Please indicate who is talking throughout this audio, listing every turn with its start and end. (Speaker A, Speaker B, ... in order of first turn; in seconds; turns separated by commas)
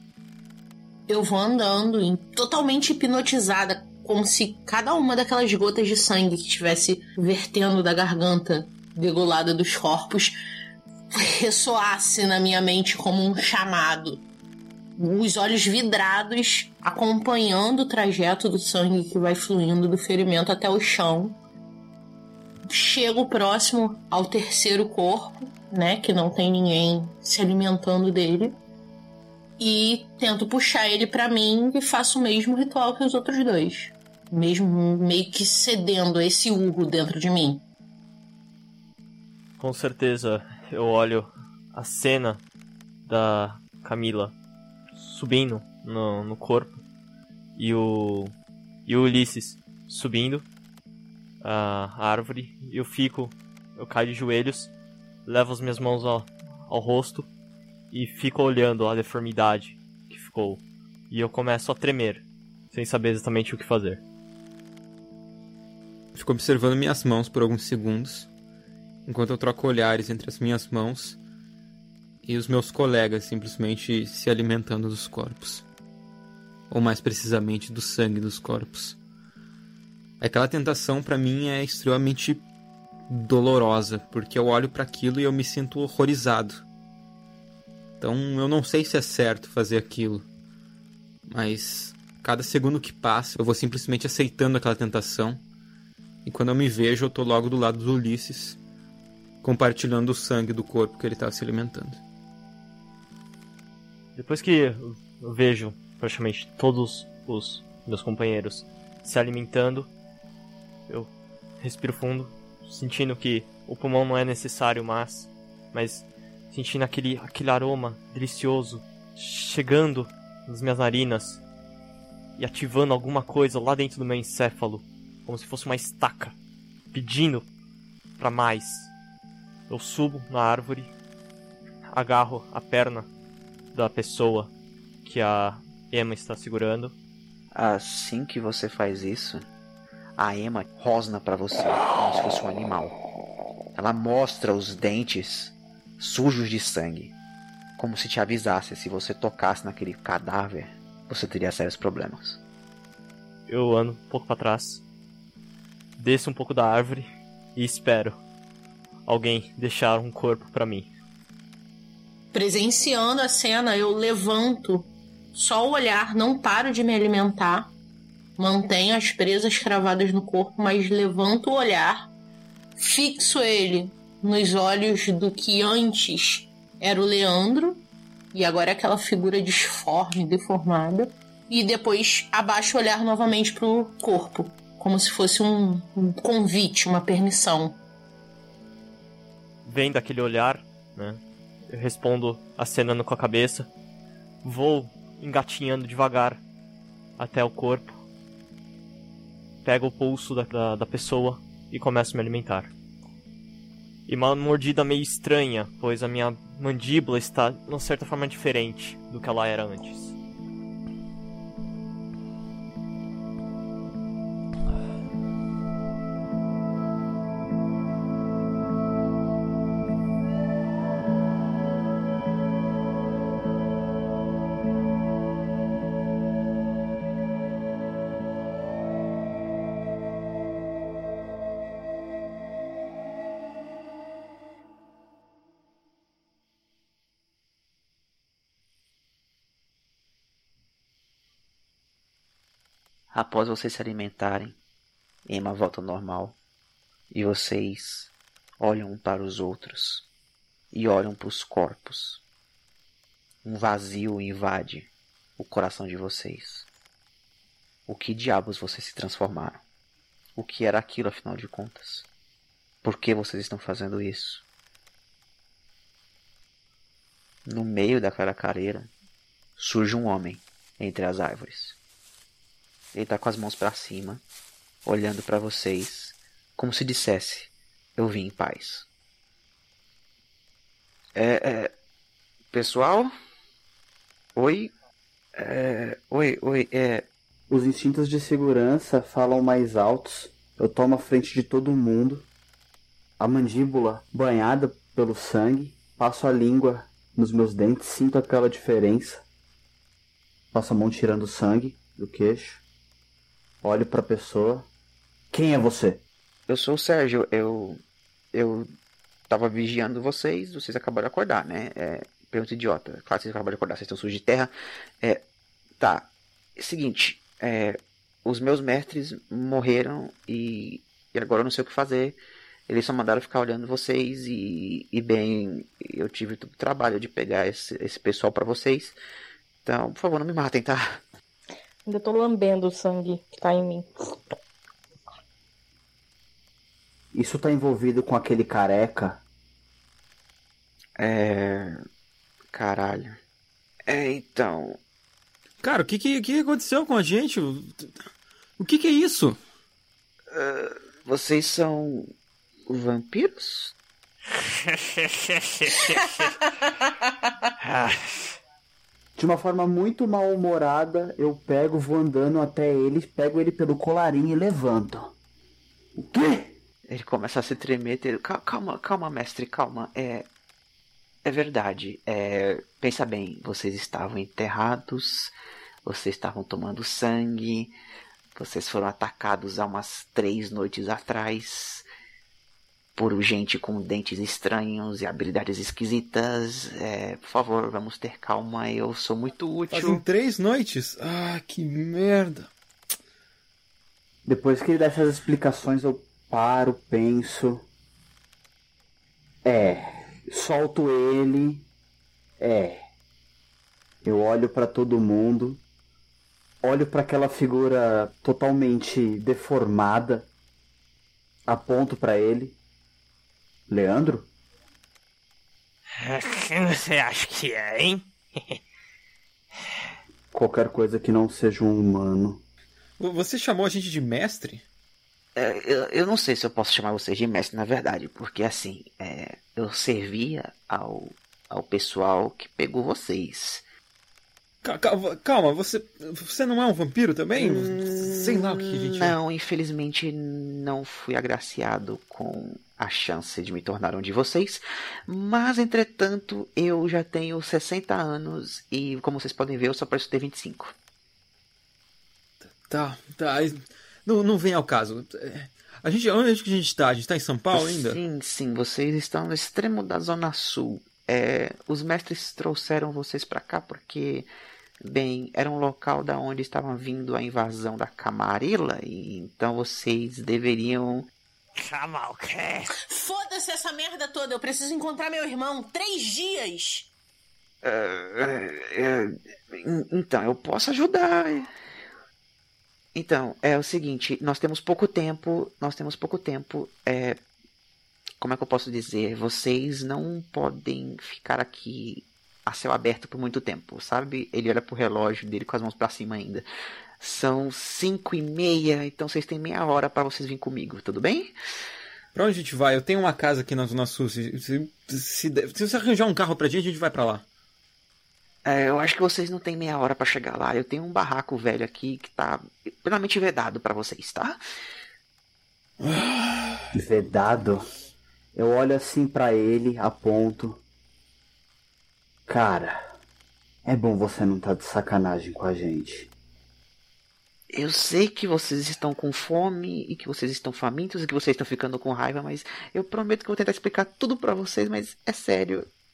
Speaker A: 1.1-10.4, Speaker A: 11.1-14.2, Speaker A: 15.0-21.4, Speaker A: 22.7-28.6, Speaker A: 29.6-37.6, Speaker B: 39.6-42.4, Speaker B: 43.0-44.4, Speaker B: 45.0-46.8, Speaker B: 47.6-48.4, Speaker B: 48.9-50.5, Speaker B: 51.4-54.7, Speaker B: 55.3-57.3, Speaker B: 57.9-64.0, Speaker C: 66.2-68.3, Speaker C: 69.1-71.2, Speaker C: 72.2-75.7, Speaker C: 76.7-79.0, Speaker C: 80.2-82.4, Speaker C: 83.1-86.6, Speaker C: 88.0-90.3, Speaker C: 91.3-95.4, Speaker C: 96.2-98.6, Speaker C: 99.4-102.0, Speaker B: 104.2-109.9, Speaker B: 110.9-121.4, Speaker B: 122.4-126.4, Speaker B: 126.9-127.5, Speaker B: 128.2-128.9, Speaker B: 129.7-130.9, Speaker B: 131.9-133.1, Speaker B: 133.7-134.5, Speaker B: 135.0-137.0, Speaker D: 137.5-139.5, Speaker D: 140.2-143.0, Speaker D: 143.8-147.2, Speaker D: 147.8-152.4, Speaker B: 153.5-154.8, Speaker B: 156.0-158.2, Speaker B: 159.1-160.9, Speaker A: 162.3-167.7, Speaker A: 168.4-172.1, Speaker A: 172.8-187.8, Speaker B: 189.7-193.7, Speaker B: 194.4-196.4, Speaker B: 197.2-198.0, Speaker B: 199.6-202.7, Speaker B: 204.1-210.2, Speaker D: 243.1-244.6, Speaker D: 245.3-246.4, Speaker D: 247.1-250.1, Speaker D: 250.7-252.2, Speaker D: 253.4-256.7, Speaker D: 257.9-259.6, Speaker D: 260.4-262.1, Speaker D: 262.8-264.4, Speaker D: 267.4-268.9, Speaker D: 269.6-271.8, Speaker D: 272.9-274.2, Speaker D: 274.9-278.9, Speaker D: 281.2-281.7, Speaker D: 282.5-283.1, Speaker D: 284.4-284.7, Speaker D: 285.4-287.1, Speaker E: 287.5-292.3, Speaker E: 293.2-299.2, Speaker E: 300.5-302.6, Speaker E: 303.6-304.7, Speaker E: 305.3-306.0, Speaker D: 306.5-307.8, Speaker D: 308.3-308.7, Speaker D: 309.3-315.2, Speaker D: 315.8-329.0, Speaker D: 329.6-331.0, Speaker F: 331.9-333.9, Speaker E: 337.1-339.2, Speaker D: 341.0-341.7, Speaker D: 342.5-343.2, Speaker D: 343.9-344.8, Speaker C: 345.6-348.0, Speaker C: 348.6-349.4, Speaker D: 350.3-352.1, Speaker D: 352.7-353.7, Speaker G: 354.3-356.3, Speaker G: 357.6-358.4, Speaker E: 359.2-365.1, Speaker E: 366.0-366.5, Speaker D: 366.9-370.3, Speaker D: 371.2-375.3, Speaker D: 375.8-377.7, Speaker D: 378.4-381.9, Speaker D: 383.0-390.0, Speaker C: 389.7-392.5, Speaker E: 394.2-397.7, Speaker E: 399.4-401.7, Speaker E: 402.4-402.8, Speaker E: 404.0-405.6, Speaker E: 406.6-410.3, Speaker E: 411.5-412.6, Speaker E: 413.7-414.3, Speaker G: 416.0-418.6, Speaker E: 420.3-422.4, Speaker C: 423.0-424.6, Speaker D: 425.4-433.6, Speaker C: 434.6-439.2, Speaker D: 437.4-450.7, Speaker C: 452.5-458.0, Speaker D: 457.5-464.3, Speaker D: 464.9-471.1, Speaker G: 471.6-472.6, Speaker A: 472.9-476.9, Speaker D: 477.6-481.5, Speaker D: 482.9-487.2, Speaker D: 488.2-496.4, Speaker D: 497.0-501.3, Speaker C: 502.1-507.2, Speaker D: 508.4-514.4, Speaker E: 516.8-517.6, Speaker E: 518.4-520.6, Speaker E: 522.3-522.8, Speaker E: 523.6-526.1, Speaker D: 527.5-535.7